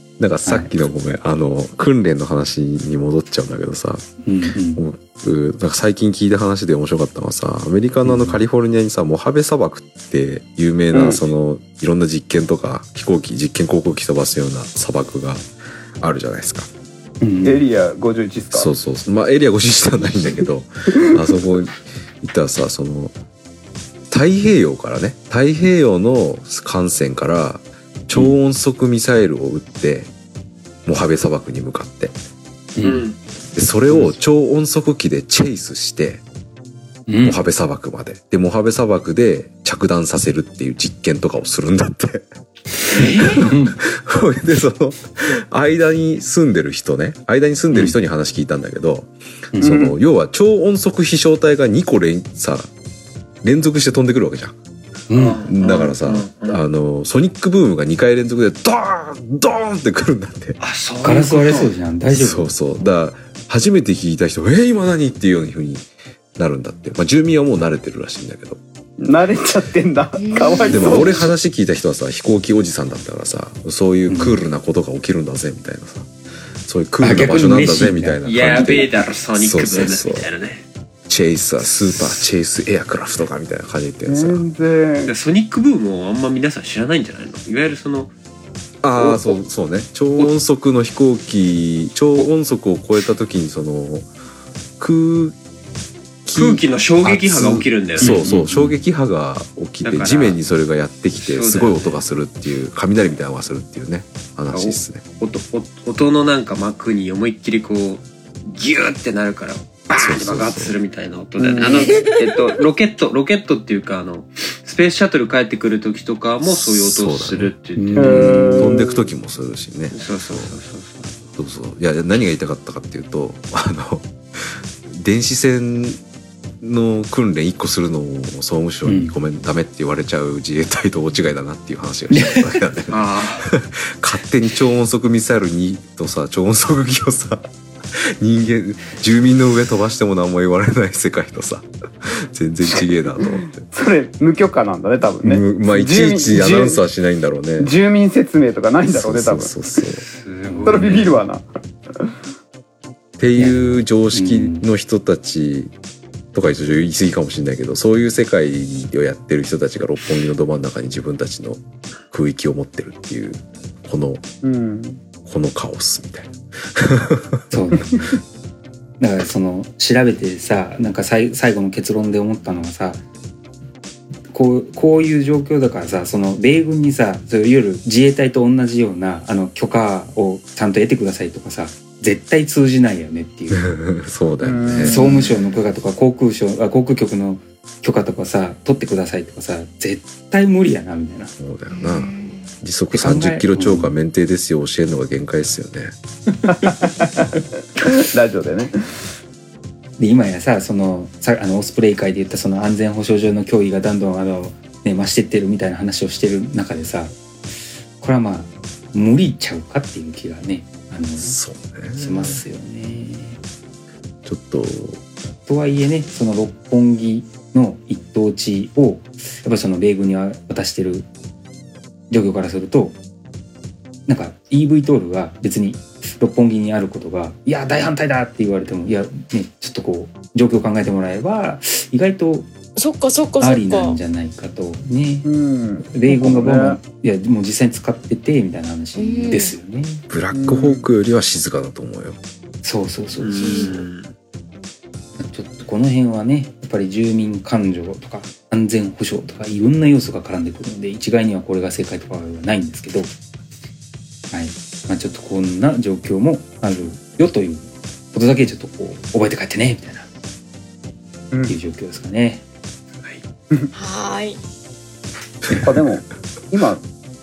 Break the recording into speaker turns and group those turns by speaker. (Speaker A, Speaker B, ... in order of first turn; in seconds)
Speaker A: 0.2-4.1, 4.7-15.5, 16.0-16.7, 18.5-23.1, 24.1-30.1, 30.9-32.1, 33.5-36.2, 37.2-42.2, 43.2-52.7, 53.4-54.5, 55.4-60.6, 62.1-68.6, 70.7-76.1, 76.6-80.3, 81.1-84.4, 88.8-94.1, 94.8-95.3, 96.2-105.0, 109.9-110.8, 116.4-120.6, 121.4-126.0, 126.6-143.7, 145.2-147.7, 148.9-150.1, 153.2-155.7, 156.3-161.6, 162.1-164.2, 165.2-167.4, 183.5-185.1, 191.4-195.9, 211.2-212.4, 214.2-215.0, 240.1-242.2
Speaker B: 0.4-0.7, 4.2-4.8, 8.0-8.4, 17.2-17.6, 28.1-28.4, 32.8-33.0, 33.9-34.1, 37.1-37.4, 43.0-43.8, 49.5-49.9, 55.1-55.4, 61.0-62.5, 74.1-74.4, 77.0-78.9, 98.0-98.8, 117.7-118.8, 128.8-129.1, 132.1-132.6, 150.4-150.8, 153.3-154.7, 167.5-168.2, 169.0-173.0, 174.3-183.7, 184.8-191.3, 192.9-193.9, 200.0-207.1, 208.0-211.4, 211.9-213.4, 215.4-221.1, 222.1-223.0, 224.1-232.5, 233.4-235.3, 235.8-240.0, 242.6-243.8, 245.2-253.1, 254.3-260.1, 261.5-262.4
Speaker C: 10.9-11.2, 17.4-18.7, 49.6-49.9, 69.0-71.3, 84.0-85.1, 111.4-112.0, 118.0-119.0, 142.7-146.8, 147.6-149.6, 150.7-151.4, 164.4-165.0, 184.4-185.3, 196.5-198.7, 235.2-236.8, 240.3-240.8, 265.6-266.8
Speaker D: 32.8-33.2, 42.9-43.4, 55.1-56.6, 60.6-61.7, 78.2-80.6, 81.6-82.2, 85.0-88.1, 96.3-98.5, 99.8-100.4, 101.1-102.0, 104.5-118.2, 119.9-121.2, 132.9-133.5, 150.1-151.2, 243.2-244.1
Speaker E: 70.2-71.1, 111.6-112.4, 191.7-192.5, 232.8-234.0, 238.9-239.5, 243.4-243.8, 263.7-264.4